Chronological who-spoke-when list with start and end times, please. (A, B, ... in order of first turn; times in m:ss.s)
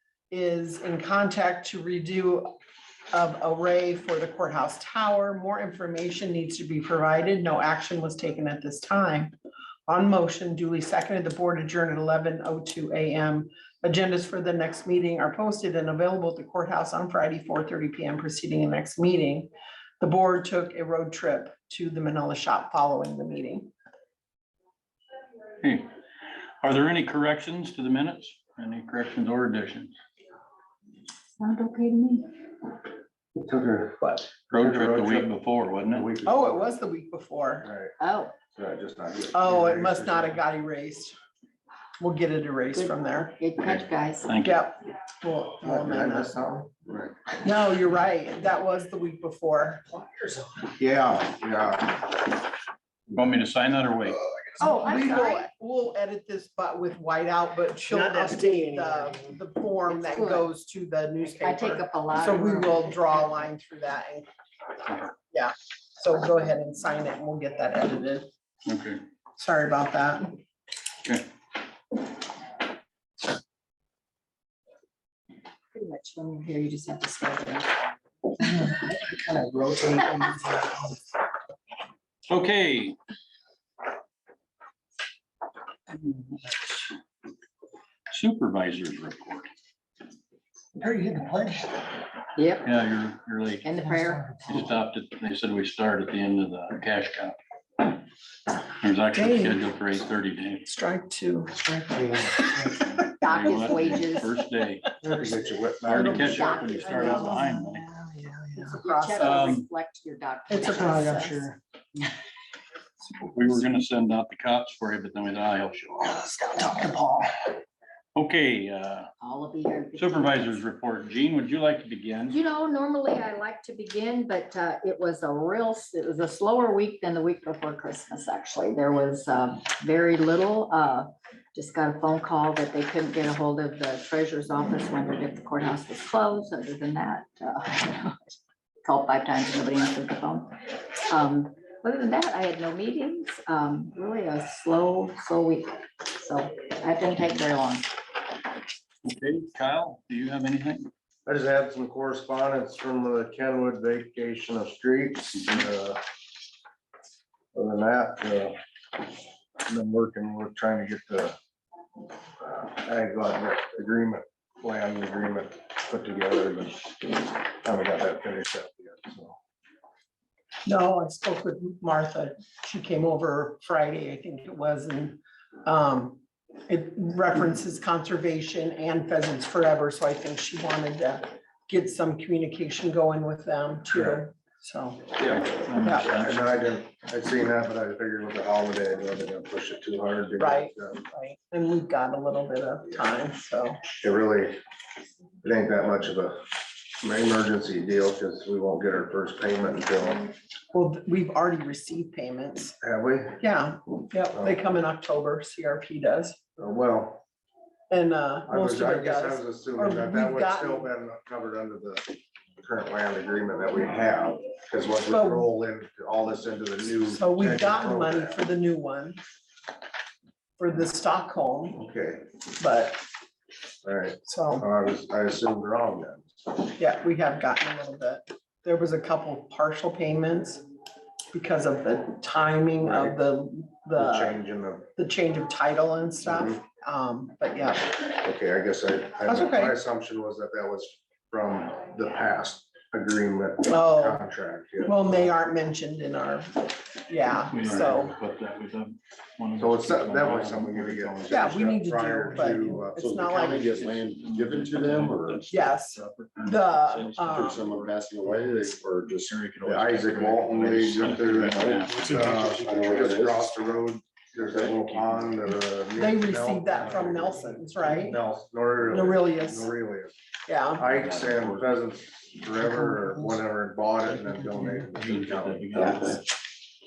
0:00.3-0:02.5 A
0:03.1-0:09.3 A
0:09.9-0:19.5 A
0:20.0-0:23.7 A
0:25.6-0:25.9 B
0:26.6-0:29.9 B
0:31.4-0:32.3 C
0:33.4-0:35.3 D
0:34.5-0:36.1 B
0:35.9-0:36.7 D
0:36.2-0:37.7 A
0:37.6-0:37.9 D
0:38.0-0:38.3 C
0:38.5-0:40.4 D
0:39.3-0:41.1 A
0:42.0-0:43.3 A
0:42.7-0:44.3 C
0:44.2-0:44.6 B
0:44.4-0:46.3 A
0:45.6-0:47.2 D
0:47.4-0:49.9 A
0:50.0-0:50.7 E
0:50.8-0:52.1 D
0:53.1-0:54.2 B
0:54.6-1:04.3 A
0:54.6-0:55.4 C
0:57.9-0:59.1 E
0:59.9-1:00.5 C
1:01.2-1:03.4 C
1:05.3-1:08.3 A
1:08.6-1:09.0 B
1:09.4-1:10.4 A
1:15.7-1:18.8 C
1:18.9-1:20.9 E
1:22.3-1:23.0 B
1:25.9-1:26.8 B
1:28.1-1:29.5 B
1:30.8-1:31.8 E
1:32.4-1:32.7 C
1:32.6-1:33.7 B
1:33.6-1:34.6 C
1:34.4-1:38.0 B
1:38.8-1:40.7 B
1:39.2-1:39.7 A
1:40.6-1:41.6 A
1:43.2-1:44.3 C
1:43.2-1:45.0 B
1:45.0-1:46.6 D
1:45.8-1:47.9 B
1:46.0-1:47.3 A
1:46.1-1:47.5 C
1:48.0-1:48.4 E
1:48.6-1:49.6 A
1:48.7-1:51.5 C
1:49.2-1:49.6 B
1:50.5-1:51.3 A
1:53.2-1:56.2 B
1:58.1-1:59.1 B
1:59.2-2:00.6 C
2:00.0-2:02.4 B
2:02.3-2:27.9 C
2:29.0-2:30.9 B
2:31.2-2:36.0 D
2:37.5-2:38.6 D
2:39.6-2:41.4 D
2:42.4-2:49.4 D
2:50.6-3:06.3 A
3:03.9-3:04.2 D
3:05.2-3:06.4 B
3:06.0-3:11.0 D
3:10.4-3:13.8 A
3:14.0-3:14.6 D
3:15.4-3:16.4 D
3:17.0-3:20.3 D
3:20.7-3:22.8 A
3:22.8-3:23.4 D
3:23.4-3:26.4 A
3:26.6-3:27.2 D
3:27.9-3:30.9 A
3:28.5-3:38.4 D
3:35.1-3:35.5 A
3:37.1-3:39.2 A
3:40.6-3:41.8 A
3:41.7-3:42.3 D
3:42.6-3:43.0 A
3:43.8-3:46.4 D
3:44.2-3:44.6 A
3:46.8-3:50.6 A
3:51.3-3:54.4 A
3:52.8-3:53.2 D
3:53.9-3:54.9 D
3:55.0-3:58.0 A
3:56.2-3:56.6 D
3:58.1-4:05.3 D
3:59.2-3:59.8 A
4:03.6-4:04.2 A
4:04.8-4:08.2 A
4:07.5-4:11.6 B
4:09.6-4:13.0 D
4:11.3-4:13.8 A
4:13.0-4:15.5 F
4:13.3-4:18.7 B
4:15.5-4:17.6 A
4:17.3-4:19.5 F
4:19.3-4:22.3 B
4:19.6-4:30.1 D
4:20.2-4:20.8 F
4:21.4-4:23.7 F
4:24.4-4:24.7 F
4:24.6-4:25.3 B
4:26.0-4:28.2 A
4:28.9-4:29.7 A
4:30.5-4:30.8 A
4:30.7-4:35.8 D
4:30.8-4:31.7 B
4:34.9-4:36.2 B
4:35.7-4:36.2 F